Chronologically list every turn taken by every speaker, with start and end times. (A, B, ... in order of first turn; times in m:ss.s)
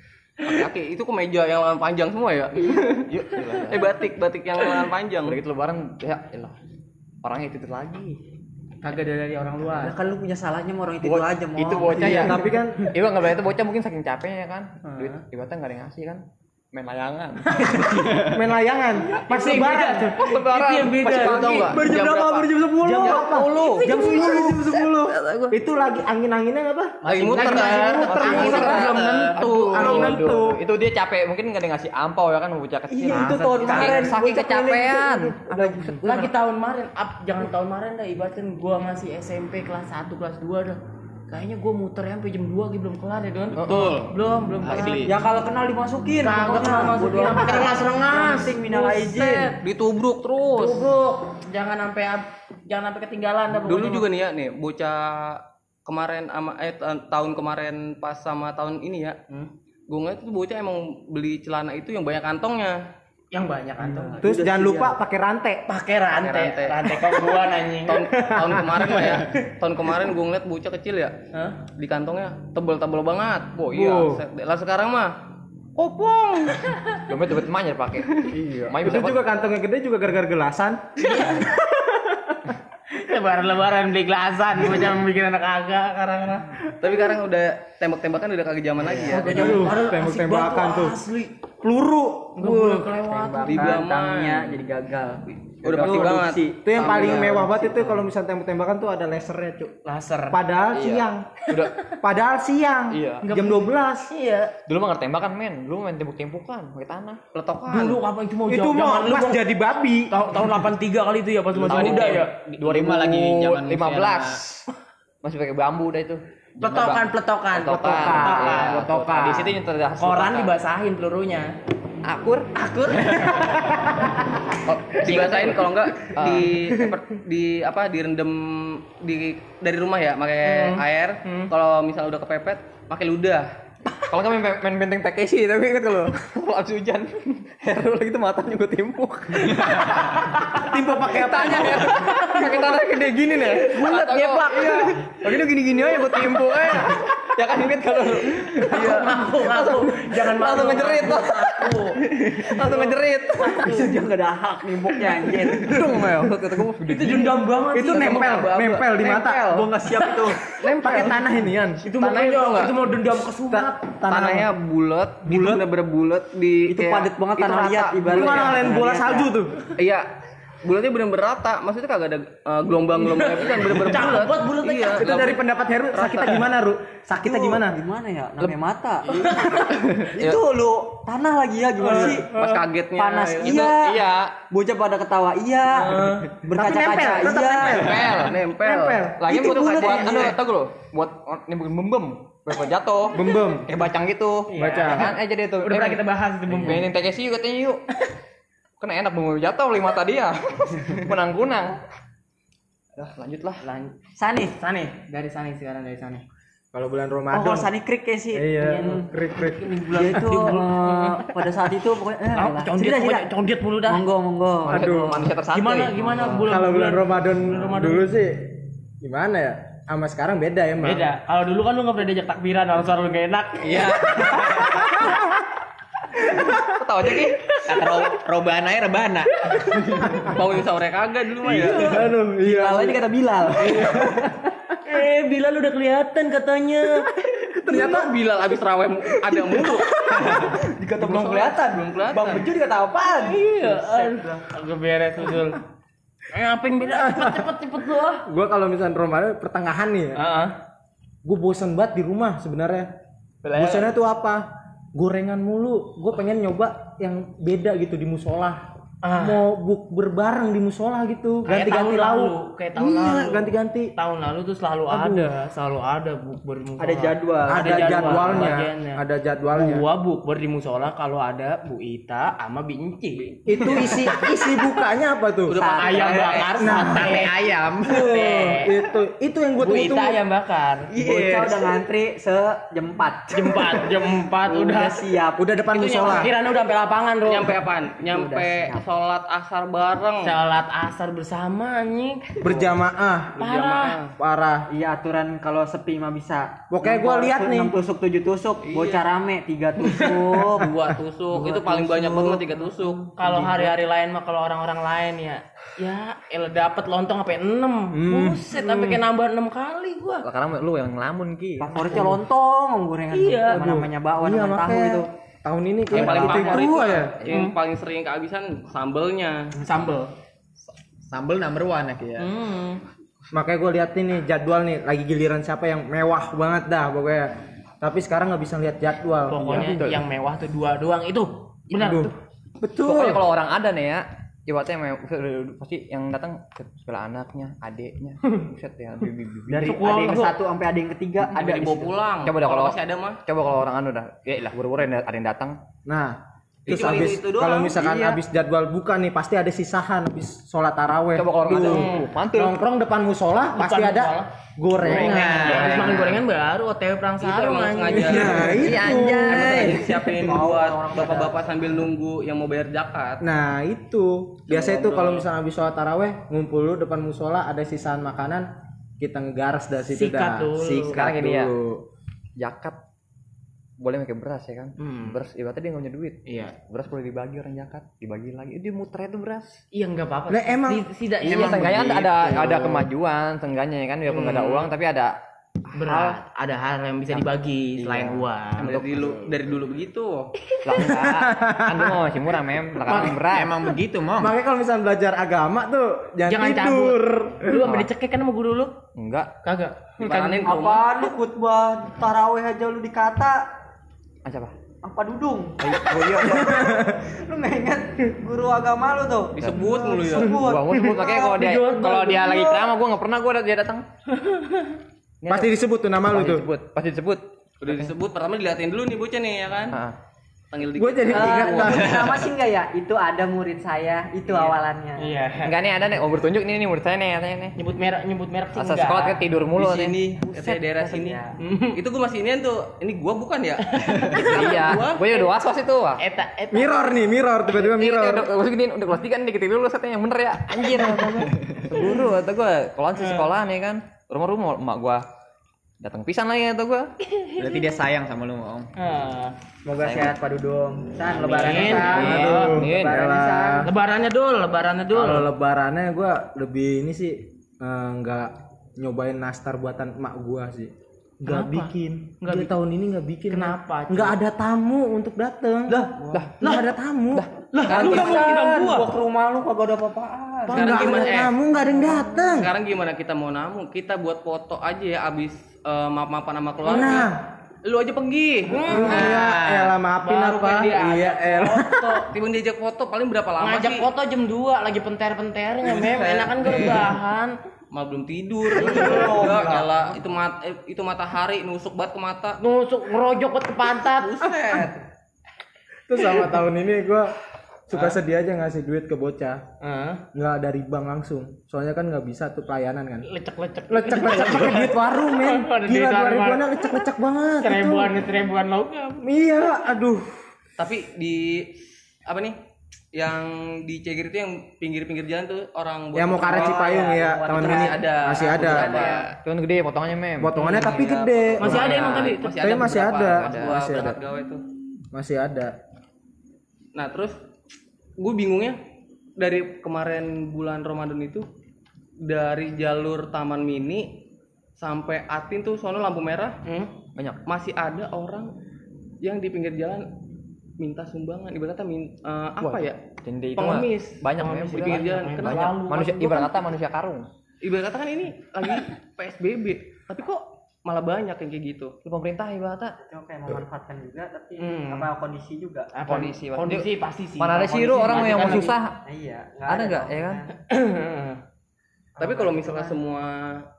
0:00.4-0:03.1 A
0:03.0-0:03.9 B
0:03.7-0:05.4 A
0:05.2-0:06.5 B
0:07.2-0:08.2 B
0:08.8-0:10.0 C
0:09.7-0:12.4 D
0:11.0-0:16.2 B
0:11.9-0:12.8 E
0:14.8-0:15.2 C
0:16.7-0:17.7 B
0:17.5-0:18.3 C
0:18.3-0:20.2 E
0:19.2-0:21.6 C
0:20.1-0:22.0 B
0:21.1-0:23.3 A
0:21.5-0:30.6 E
0:23.0-0:25.6 B
0:23.6-0:24.5 C
0:24.1-0:24.5 D
0:27.0-0:36.3 B
0:27.1-0:29.2 A
0:28.2-0:29.3 F
0:28.4-0:28.7 C
0:32.9-0:36.0 D
0:33.5-0:34.2 E
0:36.0-0:45.0 C
0:43.6-0:44.0 B
0:44.6-0:45.1 F
0:45.0-0:49.6 D
0:46.2-0:49.6 C
0:49.6-0:50.9 A
0:50.5-0:54.0 C
0:53.6-0:59.2 A
0:59.9-1:02.8 A
1:03.3-1:04.2 C
1:03.8-1:04.9 D
1:04.2-1:05.6 E
1:05.7-1:08.1 C
1:06.1-1:07.0 A
1:07.8-1:11.2 A
1:08.1-1:09.2 E
1:11.3-1:11.6 C
1:11.8-1:15.1 A
1:13.6-1:14.1 B
1:13.8-1:14.2 E
1:15.8-1:16.7 A
1:17.1-1:19.2 B
1:18.4-1:22.4 E
1:21.0-1:21.5 C
1:22.9-1:26.6 C
1:26.7-1:29.6 A
1:28.8-1:29.4 D
1:29.0-1:31.3 C
1:29.2-1:31.0 E
1:31.6-1:32.9 E
1:32.4-1:33.8 C
1:32.9-1:37.6 D
1:33.4-1:34.6 A
1:35.6-1:37.5 A
1:36.6-1:39.8 E
1:39.8-1:40.4 C
1:40.3-1:44.1 E
1:40.7-1:41.9 B
1:42.9-1:43.3 B
1:43.2-1:44.5 C
1:44.7-1:47.2 B
1:47.3-1:48.0 A
1:47.7-1:49.4 C
1:48.5-1:50.1 E
1:50.1-1:52.5 C
1:51.5-1:54.6 B
1:51.9-1:52.2 A
1:52.6-1:54.4 F
1:55.2-2:00.5 B
1:56.6-1:58.9 C
1:57.8-1:59.5 E
2:00.0-2:01.5 C
2:02.0-2:02.5 B
2:02.5-2:04.4 C
2:03.1-2:03.5 B
2:04.6-2:06.9 B
2:05.0-2:13.5 A
2:10.4-2:11.5 C
2:14.1-2:33.9 B
2:20.4-2:22.6 C
2:20.7-2:21.9 E
2:23.8-2:24.8 D
2:28.5-2:32.0 C
2:32.6-2:32.9 C
2:33.5-2:35.8 D
2:35.5-2:37.4 B
2:36.8-2:38.5 C
2:37.7-2:39.6 E
2:38.0-2:38.8 A
2:38.2-2:39.3 B
2:39.0-2:40.4 D
2:39.9-2:40.3 C
2:40.6-2:41.3 A
2:40.8-2:41.8 E
2:40.8-2:41.7 B
2:40.8-2:43.8 C
2:42.0-2:42.7 A
2:43.5-2:44.5 E
2:44.1-2:47.1 A
2:45.3-2:45.6 E
2:46.7-2:49.3 D
2:47.3-2:48.2 B
2:48.0-2:49.6 E
2:49.8-2:50.1 A
2:50.6-2:55.4 A
2:53.0-2:55.2 C
2:55.0-2:57.8 E
2:56.0-2:56.4 A
2:57.1-3:02.3 D
2:59.1-2:59.8 C
3:01.8-3:02.2 E
3:02.0-3:03.7 A
3:03.0-3:08.0 D
3:03.4-3:04.3 B
3:05.7-3:06.3 C
3:06.5-3:09.3 E
3:07.7-3:08.4 B
3:08.0-3:09.1 A
3:09.2-3:17.8 B
3:09.2-3:10.4 D
3:13.1-3:13.7 E
3:14.5-3:16.9 C
3:14.6-3:15.1 E
3:18.8-3:21.8 B
3:23.0-3:23.6 B
3:23.6-3:26.2 C
3:24.2-3:24.5 D
3:26.7-3:27.7 E
3:27.3-3:29.0 D
3:28.3-3:29.8 E
3:28.6-3:31.3 C
3:29.9-3:33.3 D
3:32.3-3:34.0 C
3:33.8-3:35.3 D
3:34.7-3:35.2 E
3:34.7-3:36.4 B
3:35.5-3:38.0 C
3:36.4-3:41.1 E
3:40.8-3:45.1 C
3:43.7-3:44.8 B
3:46.7-3:47.6 B
3:47.2-3:48.0 C
3:47.6-3:49.3 F
3:49.4-3:50.3 C
3:50.2-3:51.8 A
3:51.4-3:52.0 C
3:51.5-3:54.5 D
3:51.5-3:53.0 E
3:53.6-3:54.1 C
3:53.7-3:54.0 E
3:54.8-3:57.1 C
3:57.6-4:00.3 A
3:57.7-3:58.1 D
3:59.3-4:04.4 D
4:01.0-4:02.4 A
4:03.0-4:05.6 C
4:06.3-4:08.2 C
4:06.8-4:07.5 E
4:08.2-4:10.2 E
4:10.2-4:10.5 C
4:11.2-4:12.9 E
4:13.4-4:13.9 B
4:13.5-4:14.4 E
4:14.9-4:23.9 E
4:19.0-4:19.4 C
4:21.4-4:29.0 C
4:24.9-4:25.3 E
4:26.8-4:28.5 D
4:27.4-4:29.8 E
4:29.5-4:33.4 C
4:33.4-4:35.6 E
4:33.7-4:34.1 D
4:35.5-4:36.8 A
4:35.5-4:36.5 D
4:35.8-4:38.7 C
4:36.6-4:37.2 E
4:36.9-4:38.2 F
4:38.0-4:40.2 E
4:39.6-4:40.9 C
4:40.9-4:45.4 D
4:41.0-4:41.5 F
4:43.3-4:45.0 C
4:45.4-4:46.3 E
4:45.7-4:46.2 A
4:45.9-4:47.6 C
4:47.2-4:50.3 A
4:48.0-4:48.8 D
4:50.2-4:52.4 C
4:52.4-4:53.4 E
4:53.4-4:54.0 C
4:53.4-4:54.1 A
4:54.2-4:54.6 E
4:54.7-5:00.7 D
4:56.7-4:57.7 E
4:58.6-4:59.0 A
5:00.6-5:03.1 A
5:01.3-5:03.7 D
5:03.2-5:10.3 C
5:07.9-5:09.0 E
5:10.2-5:12.2 B
5:11.6-5:15.1 D
5:13.1-5:13.7 C
5:13.5-5:17.1 E
5:15.9-5:19.5 A
5:15.9-5:16.7 D
5:16.3-5:17.5 C
5:19.6-5:20.0 D
5:21.1-5:22.3 F
5:22.2-5:22.8 C
5:23.3-5:29.7 E
5:29.3-5:32.1 C
5:29.3-5:30.0 B
5:31.7-5:33.2 E
5:32.8-5:39.8 B
5:39.5-5:41.9 D
5:39.6-5:40.4 C
5:41.2-5:45.6 B
5:41.4-5:43.2 A
5:45.8-5:55.9 E
5:46.6-5:47.7 A
5:46.7-5:48.2 D
5:51.2-5:52.6 B
5:53.5-5:54.3 C
5:54.8-5:55.9 B
5:54.9-5:56.2 F
5:55.3-5:58.6 C
5:57.2-5:58.7 A
5:57.9-5:59.8 E
5:58.5-6:00.0 B
5:59.3-6:03.2 A
6:00.1-6:01.4 D
6:03.2-6:08.5 E
6:04.5-6:05.3 A
6:09.0-6:11.8 E
6:09.9-6:11.0 C
6:10.9-6:11.5 B
6:12.4-6:12.8 B
6:13.8-6:19.6 B
6:14.8-6:15.2 C
6:16.2-6:16.5 C
6:19.7-6:21.9 C
6:20.3-6:22.1 E
6:21.2-6:25.1 B
6:24.1-6:24.7 C
6:25.7-6:28.8 C
6:25.8-6:26.2 B
6:28.6-6:30.3 A
6:30.6-6:33.5 B
6:30.7-6:32.0 E
6:32.8-6:33.3 C
6:33.3-6:34.3 F
6:34.2-6:37.6 E
6:36.3-6:38.7 C
6:37.6-6:37.9 B
6:39.0-6:39.3 B
6:39.4-6:40.4 C
6:40.0-6:40.8 A
6:40.3-6:43.4 D
6:44.2-6:44.5 B
6:44.8-6:51.4 D
6:45.6-6:46.7 B
6:46.3-6:47.0 E
6:49.3-6:50.3 A
6:49.4-6:53.8 B
6:51.3-6:52.7 C
6:54.2-6:54.7 C
6:55.2-6:55.5 B
6:55.3-6:56.4 E
6:56.1-6:57.9 B
6:57.6-6:59.8 A
6:59.7-7:00.0 B
7:00.5-7:01.8 A
7:00.8-7:02.2 E
7:01.1-7:05.2 D
7:01.9-7:02.1 B
7:04.2-7:04.6 A
7:05.0-7:05.6 C
7:05.4-7:07.5 B
7:07.6-7:09.2 C
7:08.5-7:10.2 B
7:09.6-7:11.2 A
7:10.8-7:11.3 D
7:11.4-7:11.8 C
7:11.7-7:15.0 A
7:13.6-7:15.3 C
7:14.1-7:16.0 B
7:16.0-7:16.9 C
7:16.5-7:18.3 E
7:17.5-7:25.0 B
7:22.9-7:23.2 C
7:25.8-7:26.9 B
7:27.4-7:28.7 F
7:28.8-7:29.3 C
7:29.6-7:33.7 D
7:29.8-7:30.2 B
7:31.1-7:32.4 C
7:31.6-7:33.0 B
7:31.9-7:33.7 E
7:33.6-7:35.3 C
7:34.9-7:45.8 E
7:41.2-7:42.5 C
7:43.3-7:44.2 C
7:45.7-7:46.6 D
7:46.1-7:46.6 B
7:46.4-7:47.2 E
7:47.5-7:50.6 D
7:47.7-7:48.9 A
7:47.7-7:48.6 C
7:47.8-7:48.4 E
7:50.5-7:51.3 C
7:50.5-7:51.3 A
7:50.5-7:52.5 E
7:52.2-7:57.1 A
7:56.6-7:57.2 E
7:57.6-7:59.4 A
7:58.4-8:02.1 C
7:58.6-8:02.0 E
8:02.1-8:03.8 A
8:03.4-8:07.3 C
8:05.8-8:06.8 A
8:07.7-8:12.4 A
8:08.5-8:09.7 D
8:08.7-8:09.2 C
8:12.4-8:14.2 C
8:14.0-8:14.7 D
8:15.9-8:17.1 E
8:17.7-8:19.4 E
8:19.6-8:20.0 C
8:20.1-8:23.1 E
8:23.1-8:26.6 C
8:23.7-8:28.0 E
8:27.4-8:29.0 C
8:29.0-8:30.2 E
8:30.6-8:32.4 A
8:32.9-8:36.8 A
8:35.9-8:38.9 E
8:36.2-8:39.0 D
8:37.3-8:39.1 A
8:39.2-8:40.3 B
8:40.2-8:44.0 E
8:40.4-8:44.4 A
8:41.4-8:42.3 C
8:43.0-8:43.5 B
8:44.9-8:45.5 E
8:46.7-8:47.2 A
8:48.0-8:48.6 A
8:49.2-8:51.3 A
8:52.0-8:54.0 A
8:54.6-8:56.4 A
8:56.4-8:56.7 C
8:57.3-8:58.3 A
8:59.0-8:59.9 A
9:00.6-9:02.8 A
9:02.4-9:07.1 B
9:03.4-9:05.6 A
9:04.6-9:06.5 C
9:07.4-9:11.8 A
9:11.8-9:12.8 B
9:12.8-9:15.7 D
9:14.4-9:14.9 C
9:15.7-9:18.5 C
9:15.8-9:18.8 B
9:17.5-9:20.3 D
9:19.5-9:20.2 B
9:20.5-9:21.2 C
9:22.0-9:22.8 D
9:22.0-9:23.4 A